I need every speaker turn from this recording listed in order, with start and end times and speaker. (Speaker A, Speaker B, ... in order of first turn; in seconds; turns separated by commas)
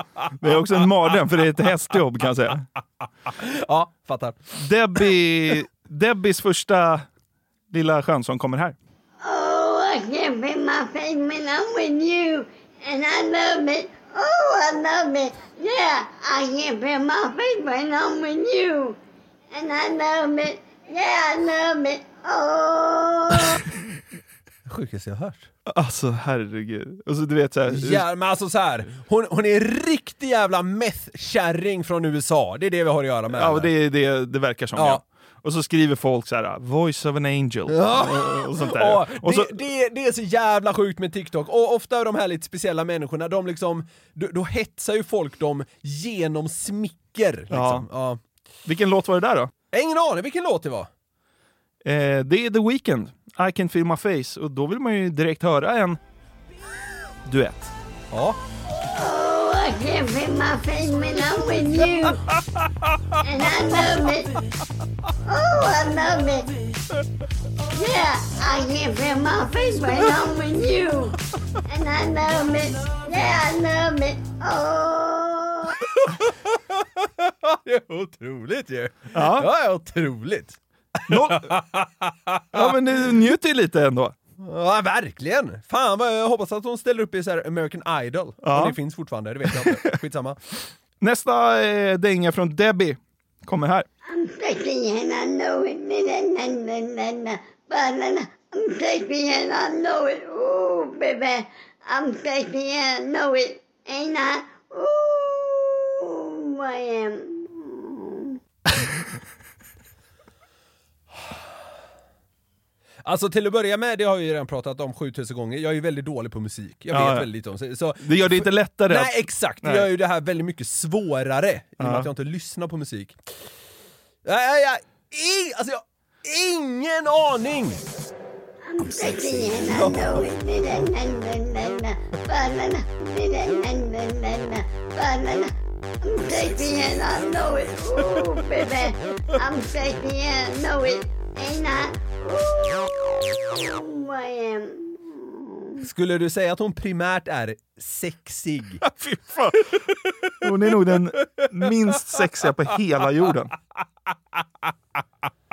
Speaker A: 0.4-2.6, Speaker B: 3.3-4.4, Speaker A: 4.6-7.1, Speaker A: 7.7-8.8, Speaker C: 9.2-19.0, Speaker C: 19.5-23.6, Speaker B: 24.7-25.5, Speaker A: 25.7-28.1, Speaker B: 27.7-33.7, Speaker A: 33.3-39.6, Speaker B: 34.8-35.0, Speaker B: 37.7-48.2, Speaker A: 47.5-47.9, Speaker A: 48.7-49.5, Speaker B: 49.7-50.9, Speaker A: 51.8-56.0, Speaker A: 57.3-57.7, Speaker B: 58.1-58.4, Speaker C: 58.9-62.2, Speaker C: 63.2-64.3, Speaker C: 65.3-66.5, Speaker C: 67.8-71.1, Speaker C: 71.7-75.8, Speaker B: 75.8-82.7, Speaker A: 79.1-79.5, Speaker A: 81.1-81.5, Speaker A: 82.5-84.2, Speaker B: 84.4-90.4, Speaker A: 88.4-88.8, Speaker A: 89.5-89.8, Speaker A: 91.0-93.9, Speaker C: 94.1-108.3, Speaker B: 113.0-123.2, Speaker A: 116.9-117.3, Speaker A: 118.0-119.9, Speaker A: 121.8-122.1, Speaker B: 124.2-127.8, Speaker C: 128.7-135.5, Speaker B: 129.7-130.2, Speaker C: 136.0-145.4, Speaker B: 145.8-148.8, Speaker A: 148.9-149.6, Speaker A: 150.4-153.6